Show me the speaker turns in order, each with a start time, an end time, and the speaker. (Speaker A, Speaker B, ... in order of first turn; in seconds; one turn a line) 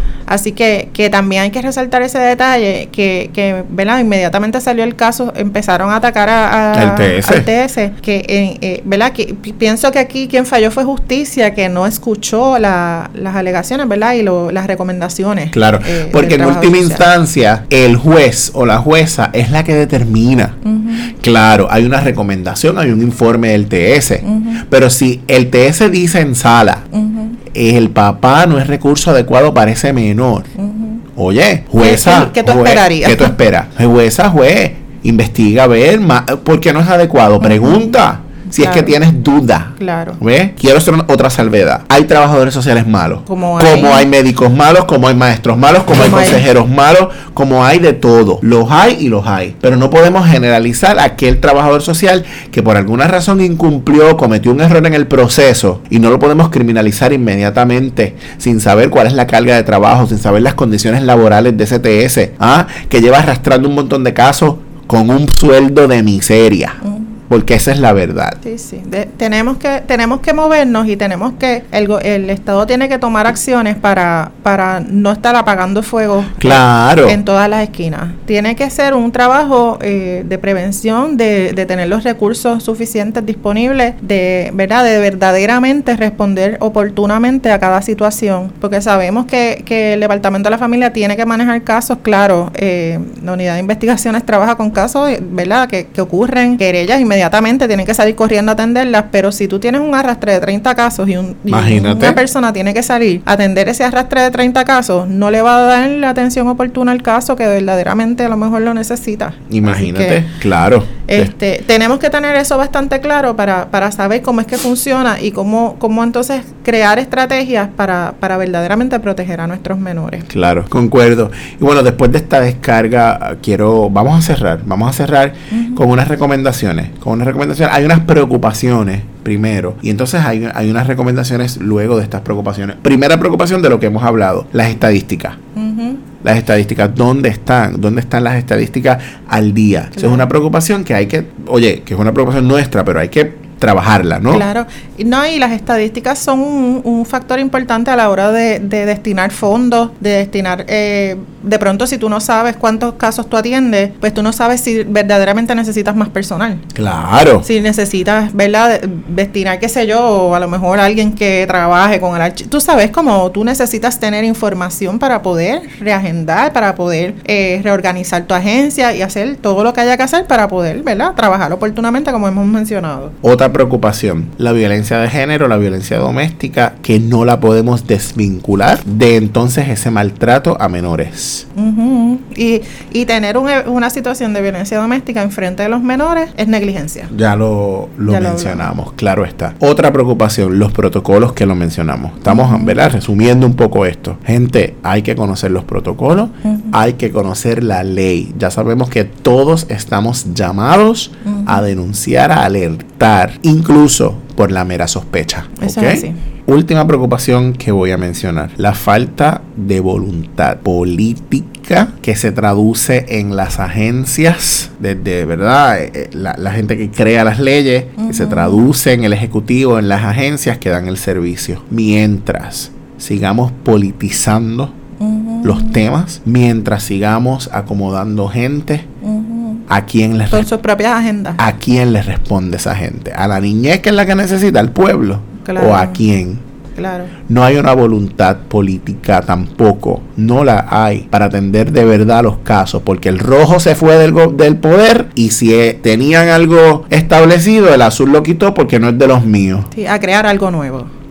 Speaker A: 0.3-17.1
Speaker B: 6.7-7.5
Speaker B: 15.5-20.6
Speaker A: 20.6-21.1
Speaker B: 21.1-26.9
Speaker A: 24.2-24.6
Speaker A: 26.9-27.4
Speaker B: 27.5-30.5
Speaker A: 30.6-31.0
Speaker B: 31.1-68.4
Speaker A: 31.8-33.4
Speaker A: 37.4-39.0
Speaker A: 39.8-40.2
Speaker A: 43.3-44.1
Speaker A: 45.9-46.4
Speaker A: 66.8-67.1
Speaker A: 68.4-110.2
Speaker B: 76.4-77.2
Speaker B: 101.5-102.2
Speaker B: 109.5-111.3
Speaker A: 111.1-120.3
Speaker B: 120.3-135.4
Speaker A: 125.5-125.8
Speaker A: 135.5-136.0
Speaker B: 136.2-144.4
Speaker A: 139.9-140.3
Speaker A: 144.3-156.6
Speaker B: 156.7-157.5
Speaker A: 157.4-173.1
Speaker B: 173.2-181.4
Speaker A: 181.5-187.1
Speaker B: 187.1-224.7
Speaker A: 188.1-188.7
Speaker A: 192.3-192.8
Speaker A: 196.4-196.7
Speaker A: 201.2-201.6
Speaker A: 205.6-206.2
Speaker A: 218.0-218.6
Speaker A: 225.0-225.8
Speaker B: 225.4-228.9
Speaker A: 229.0-229.7
Speaker B: 229.7-230.5
Speaker A: 230.3-231.4
Speaker B: 231.4-236.4
Speaker A: 235.4-236.1
Speaker A: 236.8-237.1
Speaker B: 237.3-249.7
Speaker A: 249.7-250.9